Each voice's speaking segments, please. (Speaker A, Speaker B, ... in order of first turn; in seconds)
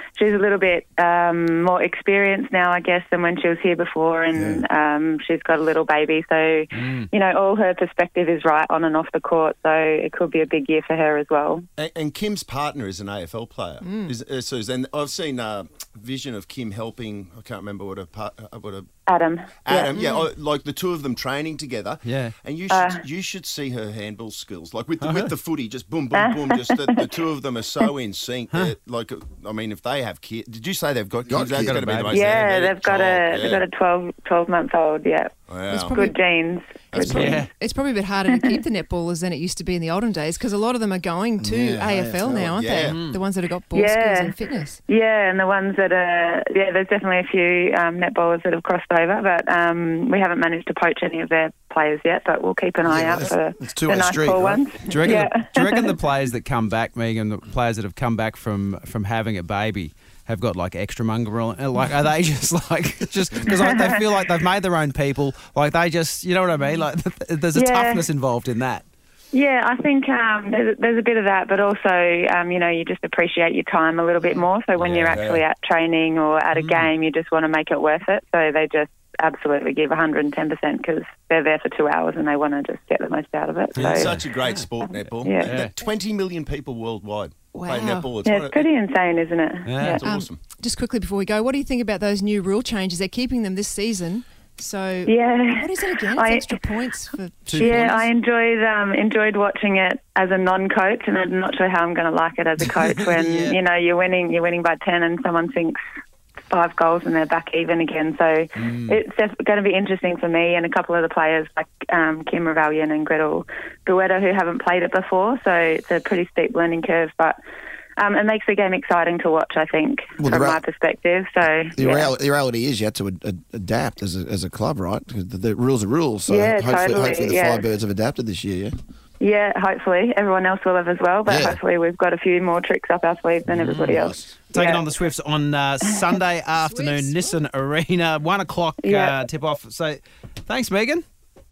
Speaker A: 0.2-11.7, 19.1-20.1, 22.7-23.0, 26.1-27.1, 32.1-35.4, 35.9-37.3, 43.7-44.3, 44.9-55.9, 63.5-64.0, 67.5-68.1, 69.3-84.2, 85.1-85.6, 88.2-90.0, 95.1-96.5, 97.6-105.8, 106.5-117.4, 118.0-122.1, 126.3-127.6, 129.2-134.8, 138.8-139.1
Speaker B: 6.7-7.1, 22.0-22.3, 25.0-25.3, 31.5-32.2, 37.0-37.5, 42.9-43.2, 54.9-68.8, 74.8-75.2, 76.5-76.9, 83.7-84.6, 85.4-85.7, 89.6-90.0, 97.5-98.0, 102.8-103.6, 108.6-109.0, 133.5-141.0
Speaker C: 11.8-19.0, 19.6-33.6, 35.5-36.1, 36.9-37.5, 42.2-43.0, 74.9-75.4, 83.8-88.7, 89.8-90.4
Speaker D: 13.8-14.1, 19.9-20.3, 35.7-36.2, 37.0-44.8, 87.6-88.1, 90.0-98.1, 136.5-137.3
Speaker E: 31.3-32.1, 41.4-42.5, 52.8-54.6, 120.2-120.6, 121.7-128.7, 131.3-131.6, 133.6-134.3